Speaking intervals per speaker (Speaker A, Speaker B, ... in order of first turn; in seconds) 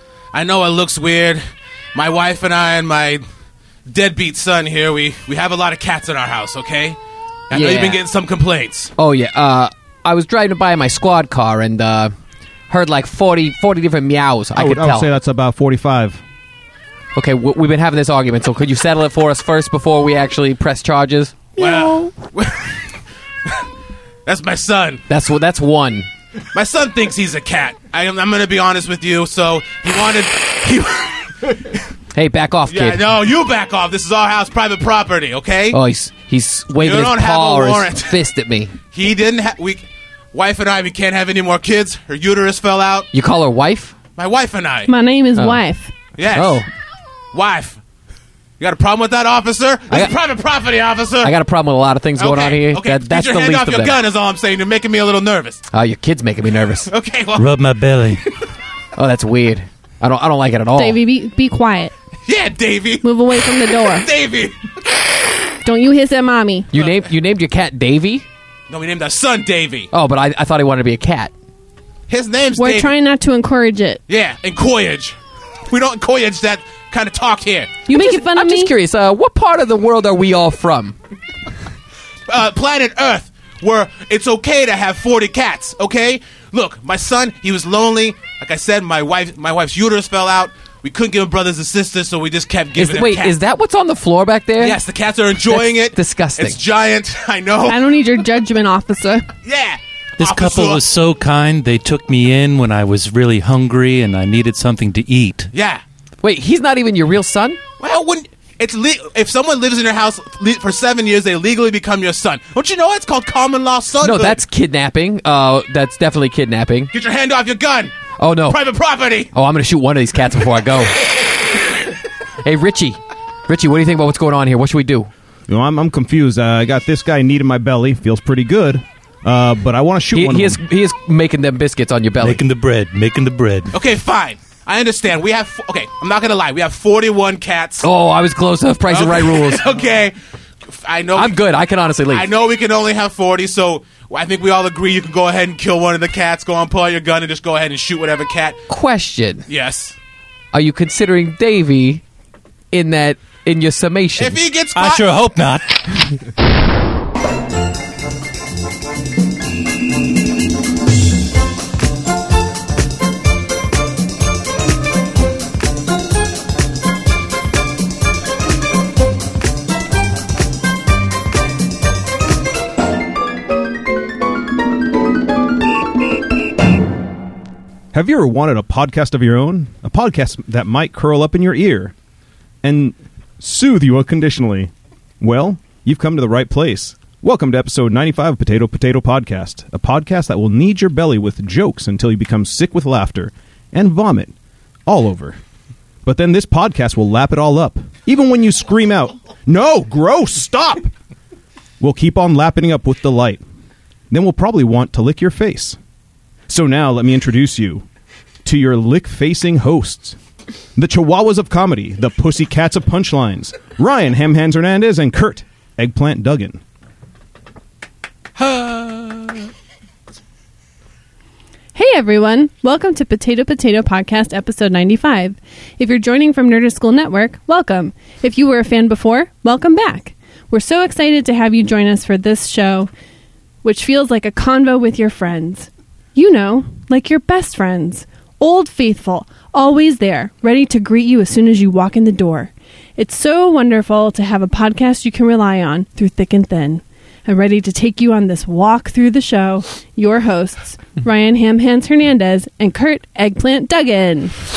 Speaker A: 0.3-1.4, 1.9-3.2, 3.9-7.0, 7.5-8.9, 21.6-22.8, 24.3-25.1, 26.5-31.8, 32.7-35.8, 36.8-38.2, 38.9-43.1, 44.2-44.9, 46.2-46.6, 47.3-47.8, 48.6-51.4, 52.2-55.6, 56.9-57.6, 62.3-64.5, 68.7-69.9, 72.1-72.9, 74.1-75.2, 75.7-77.8, 82.3-93.4, 94.6-97.9, 99.4-100.8, 105.5-105.8, 107.8-114.4, 116.9-119.3, 133.7-137.9, 138.9-140.2, 140.7-141.4, 142.1-148.6, 149.5-149.9, 154.2-155.1, 218.4-218.8
Speaker B: 7.5-8.0, 9.0-12.1, 12.7-15.1, 17.1-21.6, 25.1-26.1, 32.1-33.1, 35.7-38.7, 43.1-43.9, 45.4-45.6, 46.3-46.7, 51.2-54.0, 55.7-56.9, 59.0-61.0, 66.7-68.2, 69.9-71.3, 77.9-81.0, 92.8-94.8, 95.5-96.6, 106.2-107.6, 114.0-116.9, 118.2-118.6, 119.3-121.0, 122.4-125.1, 130.1-132.4, 137.8-139.7, 141.2-142.3, 148.7-149.4, 150.5-152.0, 152.7-154.4
Speaker C: 14.6-16.2, 125.5-130.6, 177.9-181.9, 182.6-194.3, 194.9-195.4, 196.0-200.9, 201.8-203.4, 204.1-205.8, 206.5-207.8, 208.4-210.2, 210.8-216.6
Speaker D: 21.6-22.1, 44.9-45.9, 60.8-61.9, 63.0-64.1, 65.6-66.7, 72.6-74.0, 77.9-78.7, 97.7-99.3, 221.8-232.9, 233.6-254.3
Speaker E: 57.4-58.2, 100.2-105.5, 132.2-133.7, 154.8-156.0